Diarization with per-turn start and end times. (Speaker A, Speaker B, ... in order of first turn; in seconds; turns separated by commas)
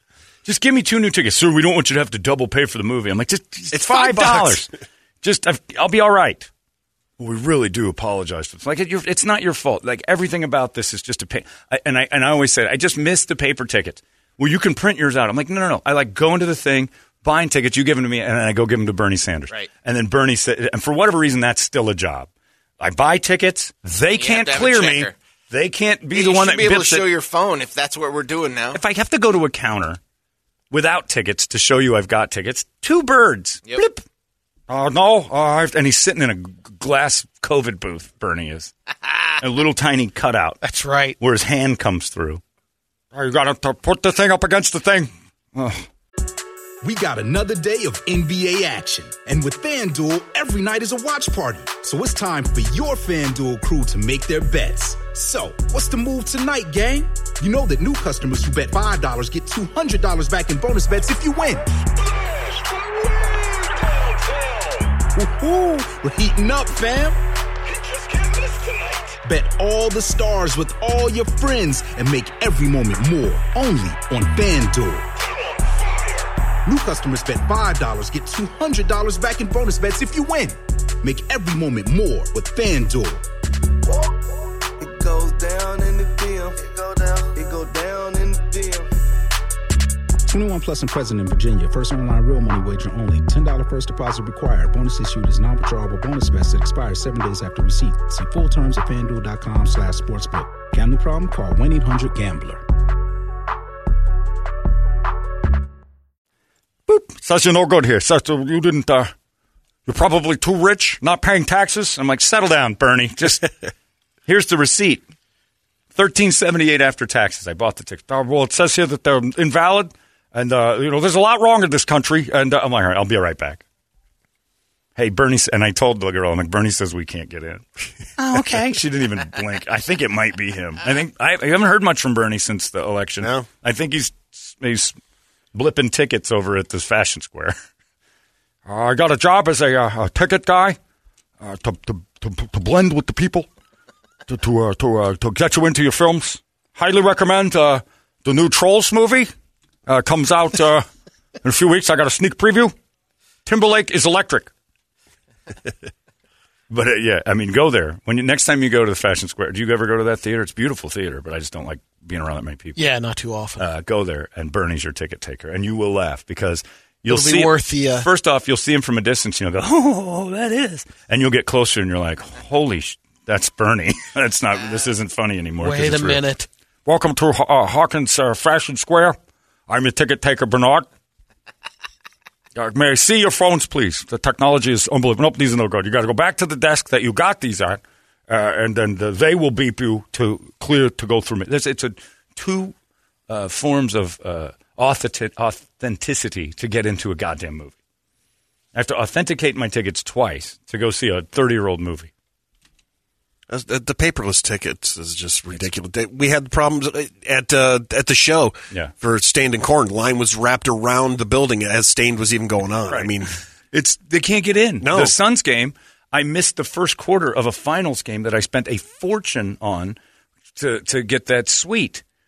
Speaker A: 0.5-4.7, Speaker B: 3.7-4.7, Speaker A: 5.2-6.5, Speaker A: 7.2-22.3, Speaker A: 22.8-27.1, Speaker C: 24.2-25.2, Speaker C: 26.1-28.8, Speaker A: 28.7-30.0, Speaker A: 30.7-34.0, Speaker A: 34.7-38.7, Speaker A: 39.4-40.6, Speaker D: 40.6-41.2, Speaker A: 41.2-42.4, Speaker A: 43.1-45.9, Speaker E: 46.8-61.9, Speaker E: 65.0-67.2, Speaker E: 69.2-75.1, Speaker E: 76.7-83.2, Speaker F: 83.9-84.2, Speaker F: 84.8-88.9, Speaker E: 90.3-102.6, Speaker A: 106.9-109.1, Speaker A: 109.9-113.5, Speaker A: 114.3-115.1, Speaker A: 115.9-123.6, Speaker A: 125.0-127.7, Speaker A: 128.2-135.0, Speaker B: 133.2-133.5, Speaker A: 135.5-137.6, Speaker A: 138.7-140.8, Speaker A: 141.4-143.5, Speaker A: 144.3-149.3, Speaker A: 149.9-150.8, Speaker A: 151.4-152.7, Speaker A: 153.5-154.5, Speaker A: 156.7-162.8, Speaker D: 162.8-163.6, Speaker A: 163.6-176.2, Speaker D: 167.1-168.1, Speaker D: 175.6-176.5, Speaker A: 176.9-179.2, Speaker A: 179.7-180.9, Speaker A: 182.6-192.7, Speaker A: 193.3-197.8, Speaker A: 198.7-202.1, Speaker B: 203.5-213.3, Speaker A: 212.9-213.1, Speaker A: 213.7-220.0, Speaker B: 214.8-215.2, Speaker A: 220.6-222.0